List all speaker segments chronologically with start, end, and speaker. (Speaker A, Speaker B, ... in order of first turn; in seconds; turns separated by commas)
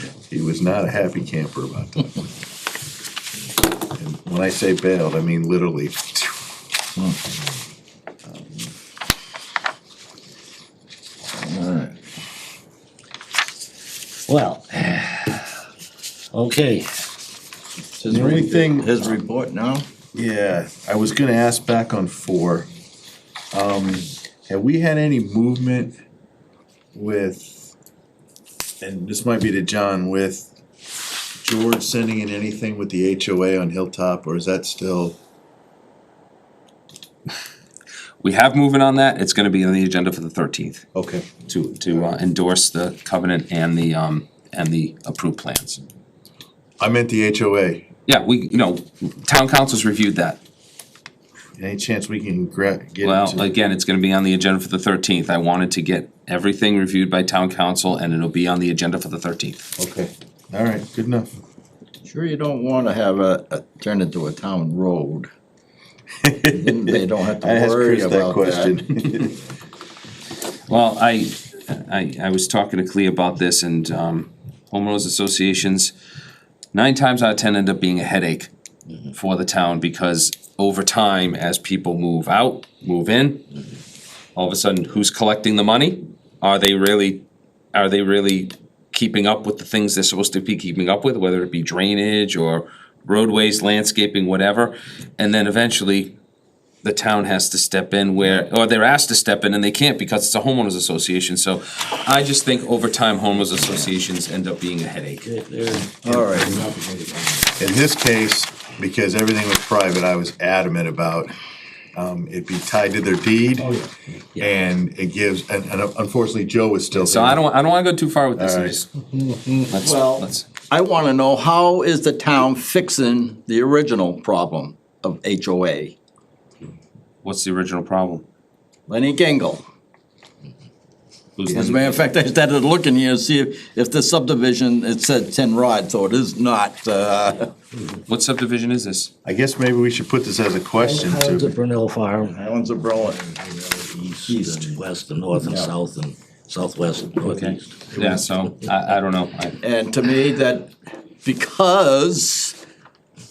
Speaker A: 0.3-2.2, Speaker A: 3.9-6.4, Speaker B: 11.3-12.0, Speaker C: 14.3-15.4, Speaker C: 16.3-16.9, Speaker B: 18.0-19.9, Speaker A: 18.1-19.0, Speaker A: 20.1-22.7, Speaker A: 23.5-26.0, Speaker A: 26.9-27.7, Speaker A: 28.8-30.5, Speaker A: 31.4-35.2, Speaker D: 38.2-40.9, Speaker A: 41.0-41.3, Speaker D: 41.5-45.8, Speaker A: 46.8-47.9, Speaker D: 48.1-50.4, Speaker A: 51.6-53.4, Speaker D: 53.0-59.6, Speaker A: 59.8-61.3, Speaker B: 62.0-65.3, Speaker A: 66.2-69.3, Speaker B: 66.5-68.8, Speaker D: 70.7-75.9, Speaker D: 76.7-78.5, Speaker D: 79.1-83.5, Speaker D: 84.3-96.2, Speaker D: 96.8-105.3, Speaker C: 105.2-107.6, Speaker B: 106.0-106.6, Speaker A: 107.6-111.3, Speaker A: 112.0-113.7, Speaker C: 113.6-114.5, Speaker A: 114.4-117.4, Speaker D: 116.9-118.9, Speaker A: 118.4-118.8, Speaker D: 119.6-120.5, Speaker B: 119.7-126.0, Speaker D: 127.2-128.2, Speaker B: 128.9-129.6, Speaker D: 131.4-132.1, Speaker B: 131.5-137.5, Speaker D: 138.1-139.1, Speaker A: 139.2-141.5, Speaker C: 140.8-142.4, Speaker B: 142.2-143.2, Speaker C: 143.2-148.5, Speaker B: 144.3-144.8, Speaker B: 145.5-145.7, Speaker D: 147.3-149.6, Speaker B: 149.6-152.6